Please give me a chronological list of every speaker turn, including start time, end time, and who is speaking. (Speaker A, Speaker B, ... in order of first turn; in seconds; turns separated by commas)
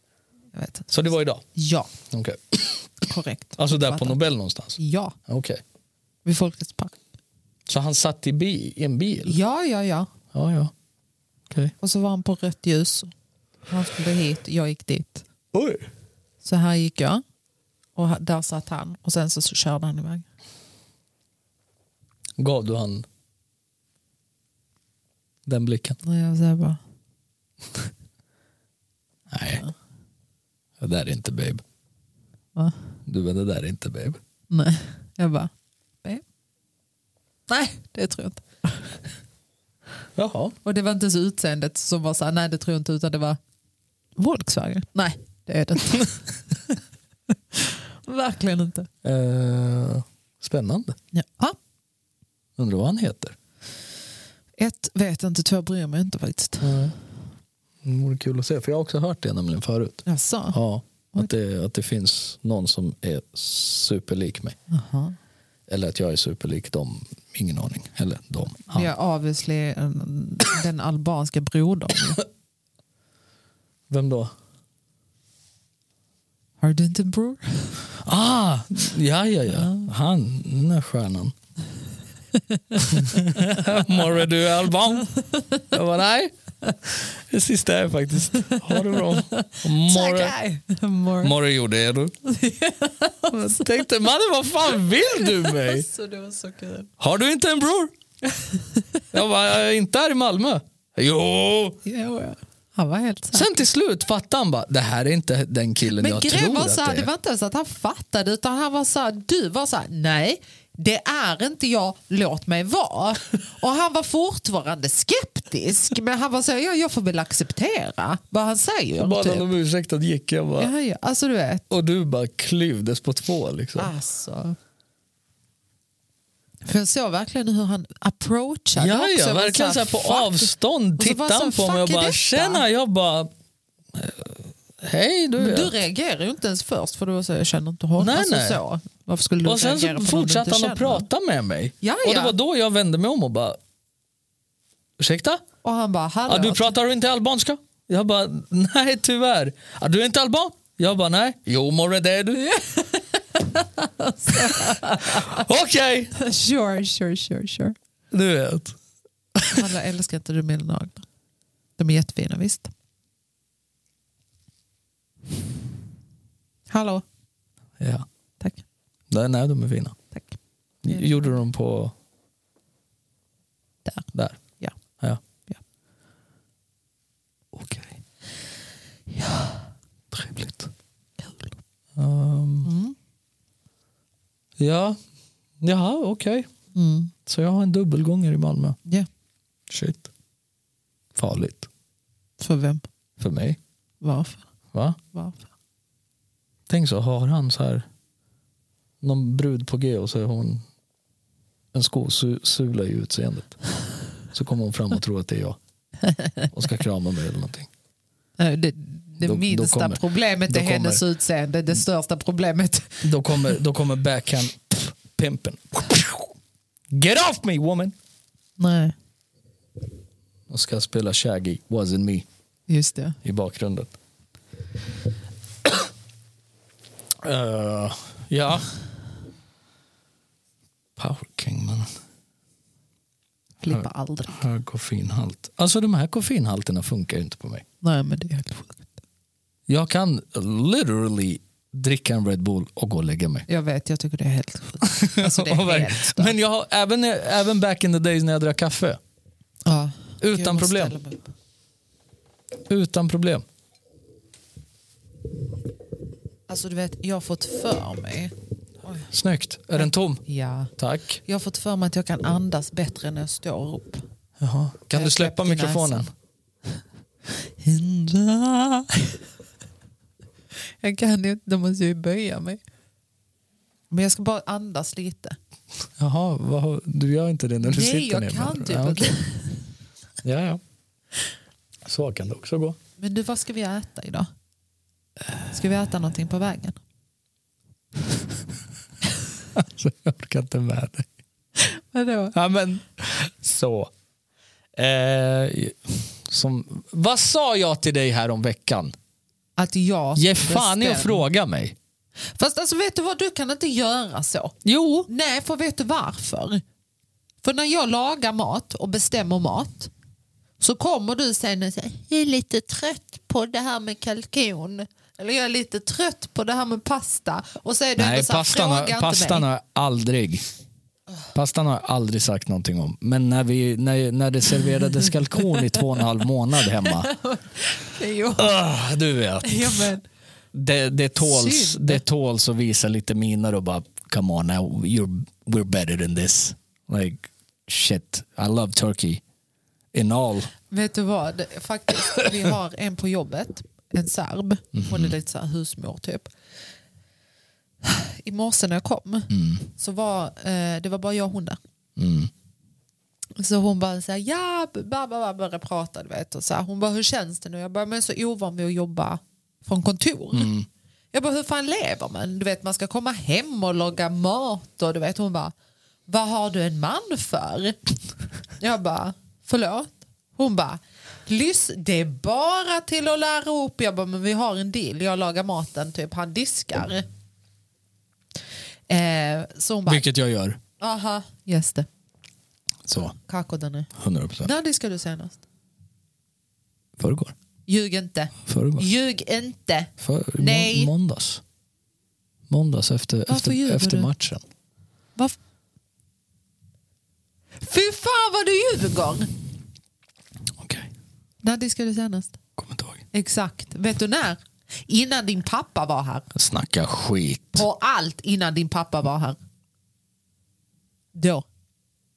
Speaker A: 0.5-1.9, Speaker B: 0.9-1.4, Speaker B: 2.1-2.9, Speaker A: 3.0-4.2, Speaker B: 3.6-5.6, Speaker A: 4.8-5.2, Speaker A: 6.2-7.0, Speaker B: 7.7-9.4, Speaker A: 9.2-10.1, Speaker B: 10.3-10.7, Speaker A: 11.8-13.1, Speaker A: 13.7-15.2, Speaker B: 15.5-15.9, Speaker A: 16.4-17.2, Speaker A: 18.0-20.2, Speaker B: 22.4-23.1, Speaker B: 25.5-26.0, Speaker A: 26.0-26.8, Speaker B: 29.3-29.6, Speaker B: 30.8-31.6, Speaker B: 33.1-34.2, Speaker A: 34.5-35.5, Speaker A: 37.5-38.9, Speaker B: 40.2-40.6, Speaker A: 40.6-43.4, Speaker A: 44.2-46.8, Speaker A: 47.5-48.9, Speaker B: 49.0-51.0, Speaker A: 51.1-51.6, Speaker B: 52.6-53.4, Speaker A: 54.6-56.9, Speaker B: 56.6-57.0, Speaker B: 57.8-64.6, Speaker A: 60.1-60.6, Speaker A: 64.7-65.2, Speaker B: 65.7-68.9, Speaker A: 68.7-72.2, Speaker B: 73.9-74.3, Speaker A: 76.6-77.9, Speaker B: 78.0-81.3, Speaker A: 79.5-79.9, Speaker A: 82.3-83.6, Speaker B: 82.8-85.1, Speaker A: 85.1-85.7, Speaker B: 85.6-86.3, Speaker B: 86.8-90.3, Speaker A: 88.3-91.3, Speaker B: 91.2-92.1, Speaker A: 92.2-93.7, Speaker B: 93.3-95.9, Speaker A: 95.0-96.9, Speaker B: 97.0-97.9, Speaker A: 98.3-99.0, Speaker B: 99.1-101.8, Speaker A: 101.8-103.6, Speaker B: 103.3-107.1, Speaker A: 105.9-119.5, Speaker B: 119.0-120.7, Speaker A: 120.6-121.7, Speaker B: 121.7-123.9, Speaker A: 123.8-124.6, Speaker A: 126.6-132.6, Speaker B: 128.8-133.3, Speaker B: 133.9-135.8, Speaker A: 135.4-141.1, Speaker B: 138.0-138.6, Speaker B: 139.4-143.6, Speaker A: 141.8-142.3, Speaker B: 145.0-145.4, Speaker A: 145.6-146.7, Speaker B: 146.3-152.6, Speaker A: 152.4-155.5, Speaker B: 154.3-156.1, Speaker A: 156.1-157.8, Speaker B: 158.1-158.8, Speaker B: 159.3-159.7, Speaker A: 159.5-161.1, Speaker A: 161.8-162.7, Speaker A: 166.7-167.0, Speaker B: 167.8-168.1, Speaker B: 169.1-170.0, Speaker B: 170.8-171.9, Speaker A: 170.9-171.3, Speaker B: 174.1-174.4, Speaker B: 177.5-178.0, Speaker A: 179.1-179.7, Speaker B: 180.1-180.7, Speaker B: 182.0-182.7, Speaker A: 182.6-182.9, Speaker B: 184.6-185.0, Speaker B: 185.6-186.5, Speaker A: 186.7-187.1, Speaker B: 187.3-188.8, Speaker B: 189.7-190.1, Speaker B: 191.2-191.7, Speaker A: 192.4-192.8, Speaker B: 193.2-193.6, Speaker A: 194.0-194.4, Speaker A: 195.1-195.4, Speaker B: 196.7-197.9, Speaker B: 199.0-200.6, Speaker B: 201.7-203.6, Speaker B: 204.3-205.6, Speaker A: 206.1-206.5, Speaker B: 206.5-207.7, Speaker A: 208.4-213.5, Speaker B: 209.2-211.0, Speaker B: 213.0-216.3, Speaker B: 216.9-217.9, Speaker A: 218.6-218.9, Speaker B: 220.5-222.3, Speaker A: 222.7-223.2, Speaker B: 223.2-223.9, Speaker B: 227.2-228.7, Speaker B: 231.0-231.9, Speaker A: 233.6-234.4, Speaker B: 233.7-237.6, Speaker A: 237.8-238.9, Speaker B: 239.7-243.5, Speaker A: 243.5-246.4, Speaker B: 244.8-249.0, Speaker A: 249.7-251.3, Speaker B: 250.2-251.0, Speaker B: 252.7-253.4, Speaker A: 256.5-259.1, Speaker B: 259.1-260.2, Speaker A: 259.8-260.7, Speaker B: 260.8-261.2, Speaker A: 261.2-264.0, Speaker B: 264.4-266.1, Speaker A: 264.9-266.1, Speaker A: 267.3-269.2, Speaker A: 270.7-272.6, Speaker A: 273.9-275.4, Speaker B: 276.0-279.1, Speaker A: 277.6-279.6, Speaker B: 280.2-280.6, Speaker B: 281.9-282.8, Speaker A: 283.0-284.3, Speaker A: 285.5-286.8, Speaker B: 289.5-291.1, Speaker A: 291.6-292.4, Speaker B: 292.3-293.9, Speaker B: 294.8-298.9, Speaker A: 299.6-301.2, Speaker B: 300.2-301.8, Speaker A: 302.3-304.6, Speaker B: 304.6-305.1, Speaker A: 305.1-306.6, Speaker A: 307.4-309.9, Speaker A: 310.6-319.5, Speaker B: 318.0-320.4, Speaker B: 321.3-327.1, Speaker A: 326.6-328.6, Speaker B: 328.4-329.9, Speaker A: 329.4-330.0, Speaker B: 330.5-339.2, Speaker A: 331.2-332.0, Speaker B: 339.9-340.5, Speaker A: 340.7-346.3, Speaker B: 344.8-345.1, Speaker A: 347.8-351.6, Speaker B: 349.3-349.7, Speaker B: 352.0-352.3, Speaker A: 353.4-360.5, Speaker B: 360.3-360.7, Speaker A: 361.1-365.5, Speaker A: 366.1-367.8, Speaker A: 368.6-377.1, Speaker A: 378.9-380.1, Speaker B: 379.9-380.6, Speaker A: 380.8-381.9, Speaker B: 382.9-383.1, Speaker A: 383.2-383.9, Speaker B: 384.0-384.5, Speaker A: 384.4-385.4, Speaker B: 387.0-387.3, Speaker A: 387.7-390.9, Speaker B: 388.5-388.9, Speaker B: 390.0-391.4, Speaker B: 392.5-394.4, Speaker A: 393.3-394.1, Speaker A: 397.6-399.3, Speaker B: 400.6-400.9, Speaker A: 401.4-402.4, Speaker B: 402.6-403.1, Speaker A: 403.1-406.3, Speaker B: 406.3-407.6, Speaker A: 407.6-409.4, Speaker A: 411.1-411.4